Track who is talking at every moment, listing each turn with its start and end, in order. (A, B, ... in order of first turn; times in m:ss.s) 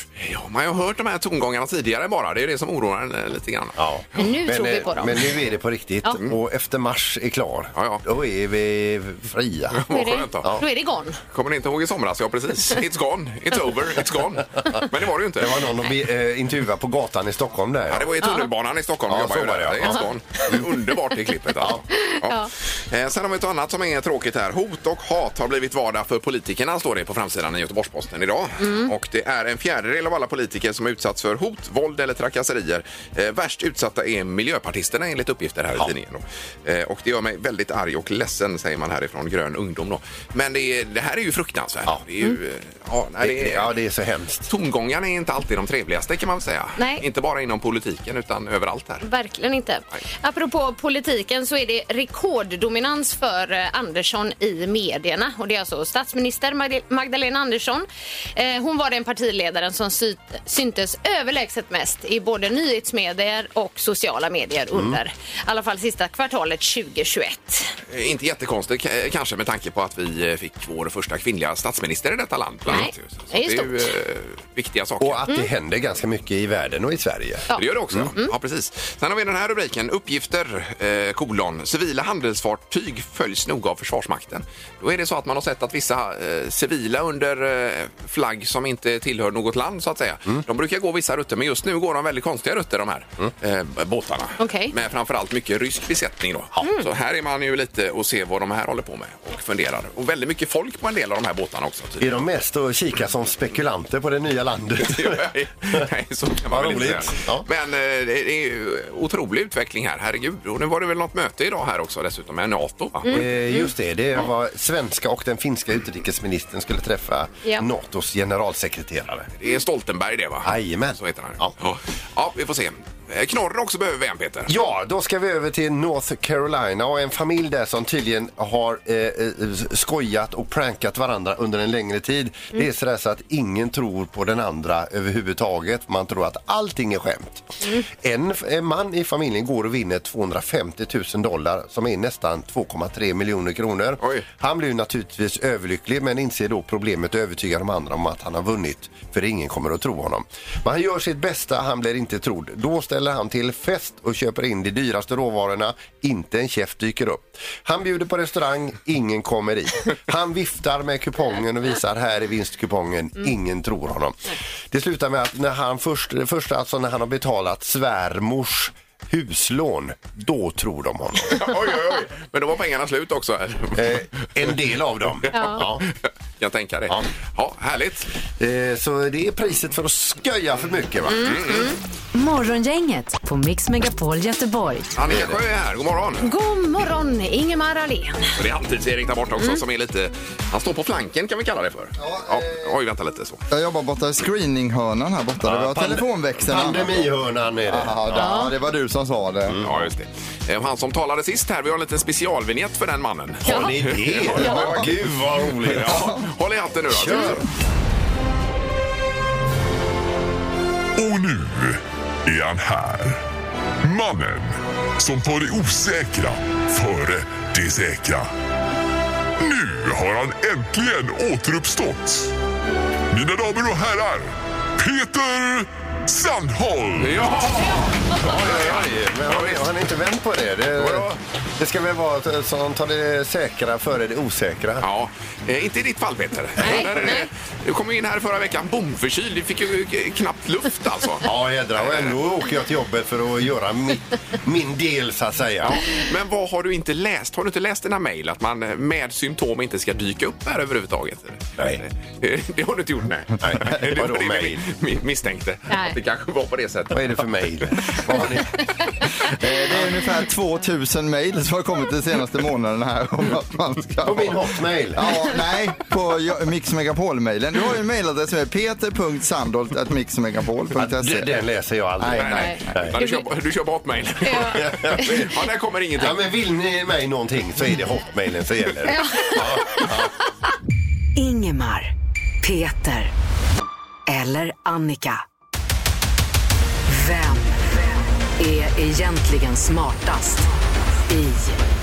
0:00.2-0:03.8 A
0:03.8-0:09.9 B
0:04.2-0:05.2 C
0:07.8-0:08.0 A
0:09.7-0:10.5 A
0:09.9-0:11.2 C
0:11.3-0:15.7 A
0:15.4-0:18.1 B
0:17.9-0:43.7 A
0:19.1-0:20.7 B
0:21.9-0:22.5 C
0:28.6-0:28.9 C
0:43.2-0:44.5 B
0:44.5-0:49.0 A
0:46.8-0:47.0 C
0:49.0-1:07.8 C
1:04.7-1:05.0 B
1:07.9-1:15.2 A
1:12.7-1:13.9 C
1:15.0-1:18.1 B
1:17.5-1:18.3 C
1:17.5-1:42.0 A
1:34.4-1:34.7 C
1:36.6-1:36.9 C
1:42.0-1:45.2 B
1:44.8-1:53.1 A
1:46.5-1:47.5 B
1:53.0-1:53.7 C
1:53.1-1:59.3 B
1:59.4-2:04.5 A
2:00.4-2:01.5 B
2:04.5-2:51.5 B
2:24.0-2:24.2 A
2:51.3-2:53.9 A
2:53.8-2:55.8 B
2:55.3-2:55.6 C
2:55.4-2:58.1 A
2:58.4-3:01.5 B
3:01.1-3:01.8 C
3:01.1-3:01.7 A
3:02.1-3:04.9 D
3:04.9-3:06.3 A
3:05.1-3:05.4 B
3:06.2-3:08.3 C
3:08.4-3:13.4 A
3:12.0-3:12.8 E
3:13.5-3:17.1 E
3:15.4-3:18.2 B
3:17.6-3:19.6 E
3:18.2-3:18.5 C
3:19.5-3:19.7 B
3:19.6-3:25.0 A
3:23.4-3:26.1 B
3:23.4-3:23.7 C
3:24.4-3:24.8 C
3:24.4-3:24.8 E
3:25.6-3:27.4 A
3:26.9-3:27.4 B
3:27.1-3:27.4 C
3:31.0-3:33.2 F
3:33.8-3:38.3 F
3:39.4-3:42.3 F
3:43.1-3:47.3 F
3:47.0-3:49.6 A
3:48.1-3:54.9 B
3:50.8-3:51.2 A
3:54.8-4:01.3 A
3:56.6-3:57.3 C
3:56.6-3:57.1 B
4:01.2-4:05.8 B
4:01.8-4:02.2 A
4:05.6-4:17.2 A
4:13.4-4:14.6 B
4:15.7-4:16.0 C
4:16.9-4:18.5 B
4:19.2-4:31.4 E
4:24.0-4:25.3 B
4:30.8-4:32.9 B
4:32.0-4:32.6 E
4:32.1-4:36.2 A
4:32.3-4:33.2 C
4:34.2-4:35.2 C
4:34.5-4:35.1 B
4:36.0-4:40.1 B
4:38.8-4:39.9 C
4:41.2-4:43.1 D
4:44.1-4:45.2 D
4:46.9-4:50.5 D
4:51.1-4:51.6 D